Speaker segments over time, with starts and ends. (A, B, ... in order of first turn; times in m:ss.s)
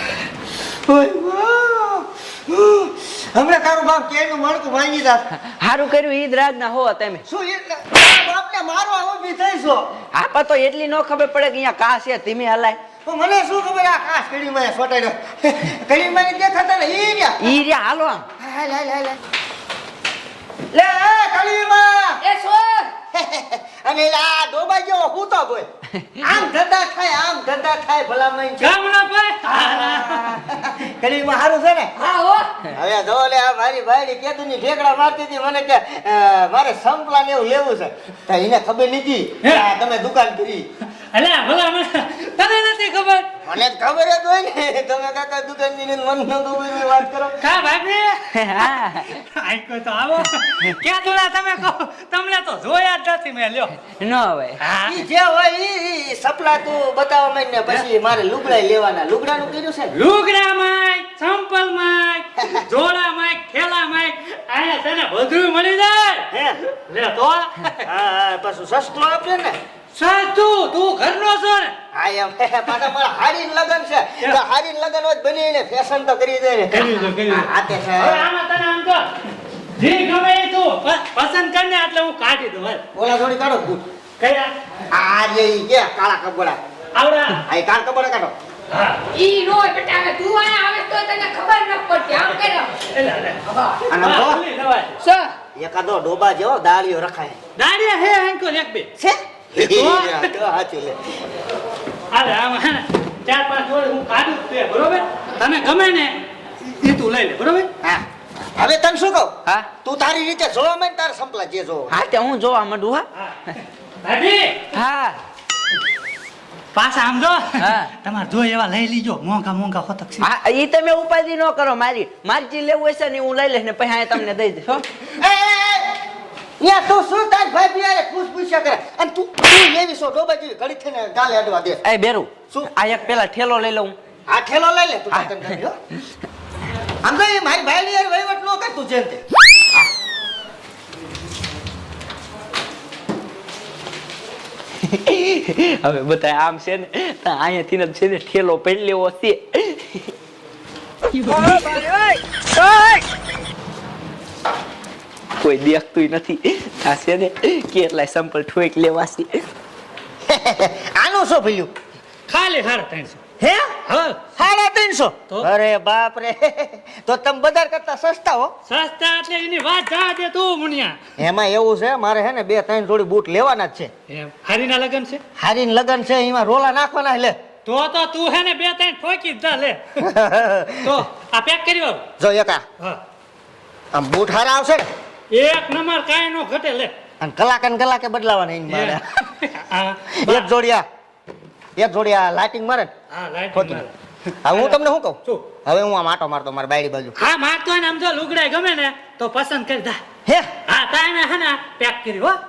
0:00.6-0:05.2 A
0:05.4-0:07.2 B
0:07.2-0:09.9 A
0:10.1-0:12.8 B
0:13.0-0:17.6 A
0:17.4-0:18.2 B
0:18.4-0:19.2 A
0:20.7-0:22.2 A
0:22.2-0:22.9 C
0:23.1-0:25.7 A
0:26.0-0:26.4 B
0:26.2-0:28.8 A
0:28.6-0:30.4 D
0:29.4-0:31.9 A
0:32.0-0:32.5 C
0:32.7-0:40.6 A
0:41.1-0:43.3 D
0:43.4-0:47.4 A
0:47.4-0:53.8 D
0:48.3-0:49.2 B
0:54.0-0:54.6 B
0:54.6-0:55.0 D
0:54.8-0:59.9 A
0:59.9-1:06.3 D
1:02.4-1:02.6 A
1:06.3-1:06.6 A
1:06.9-1:07.8 D
1:07.8-1:09.6 A
1:09.9-1:11.7 D
1:11.9-1:18.3 A
1:16.7-1:19.0 D
1:19.8-1:22.8 D
1:22.9-1:23.8 A
1:24.2-1:24.5 D
1:24.9-1:26.6 A
1:26.9-1:27.4 D
1:27.4-1:28.3 A
1:28.7-1:29.0 D
1:29.1-1:32.7 C
1:32.3-1:35.0 D
1:33.9-1:34.4 A
1:35.0-1:35.3 C
1:35.5-1:37.4 A
1:37.6-1:38.9 D
1:39.0-1:41.1 A
1:39.6-1:40.3 D
1:42.1-1:47.7 D
1:48.5-1:52.0 A
1:51.9-1:53.1 B
1:54.0-1:54.7 D
1:54.7-1:55.2 B
1:56.7-2:00.3 D
1:57.6-1:57.9 B
2:00.2-2:04.8 B
2:05.1-2:05.9 A
2:06.6-2:11.8 A
2:11.8-2:13.9 B
2:14.3-2:15.8 A
2:15.1-2:15.6 B
2:17.0-2:19.2 A
2:24.8-2:30.1 B
2:31.1-2:33.0 B
2:35.4-2:39.4 B
2:40.3-2:41.7 A
2:42.3-2:43.2 D
2:43.4-2:43.8 A
2:43.9-2:44.2 D
2:44.4-2:48.5 A
2:48.7-2:51.0 D
2:51.2-2:53.9 A
2:54.1-2:55.2 D
2:55.4-2:57.4 A
2:57.6-3:00.0 D
3:00.0-3:01.0 A
3:00.8-3:02.0 D
3:02.2-3:02.6 A
3:03.9-3:04.8 A
3:05.3-3:06.9 D
3:07.2-3:09.0 A
3:08.7-3:10.5 D
3:10.1-3:10.8 A
3:11.8-3:12.9 A
3:13.1-3:13.9 D
3:13.5-3:13.8 A
3:14.4-3:17.1 A
3:14.5-3:15.4 D
3:17.2-3:20.0 D
3:20.7-3:22.4 D